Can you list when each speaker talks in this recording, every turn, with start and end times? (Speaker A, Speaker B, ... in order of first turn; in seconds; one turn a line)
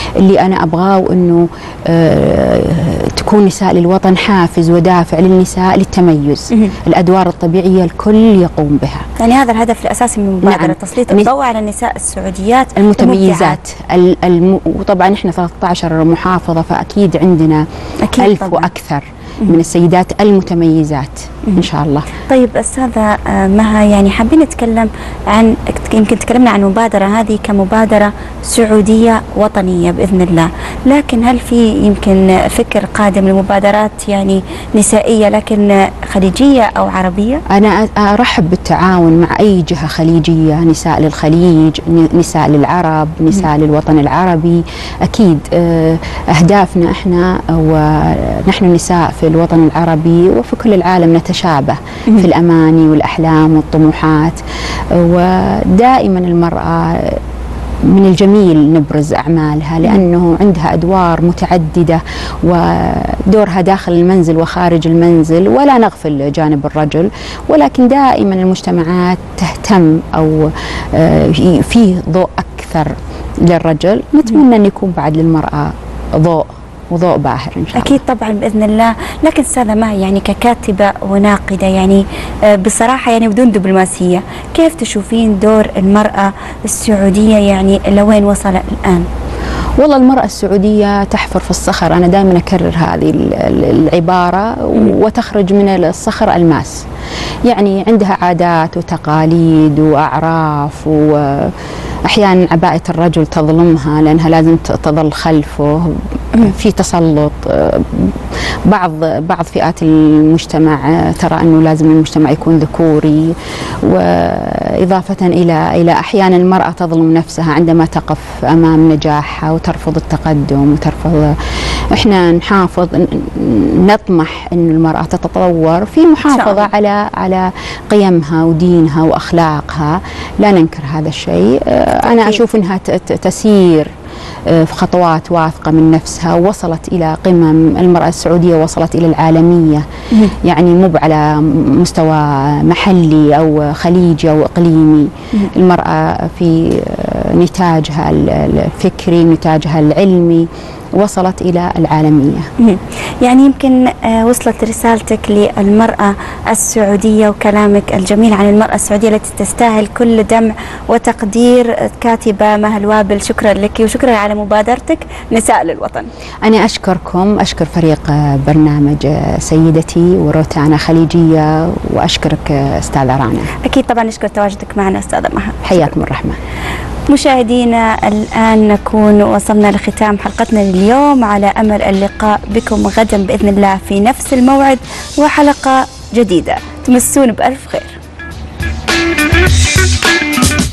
Speaker A: 0.2-9.1
Speaker B: 9.2-13.6
Speaker A: 10.4-11.3
Speaker A: 12.8-17.6
Speaker B: 18.0-18.7
Speaker A: 18.2-22.1
Speaker B: 22.2-37.4
Speaker A: 37.5-54.4
Speaker A: 54.9-57.2
Speaker A: 57.9-73.0
Speaker A: 73.5-78.0
Speaker B: 77.7-89.1
Speaker A: 89.8-96.8
Speaker A: 97.5-101.5
Speaker A: 102.1-121.4
Speaker A: 121.9-133.9
Speaker B: 126.3-126.7
Speaker B: 132.0-132.4
Speaker A: 134.5-150.5
Speaker A: 151.0-152.5
Speaker B: 152.6-166.1
Speaker A: 166.4-173.5
Speaker B: 173.6-175.8
Speaker A: 175.6-176.4
Speaker B: 177.1-188.0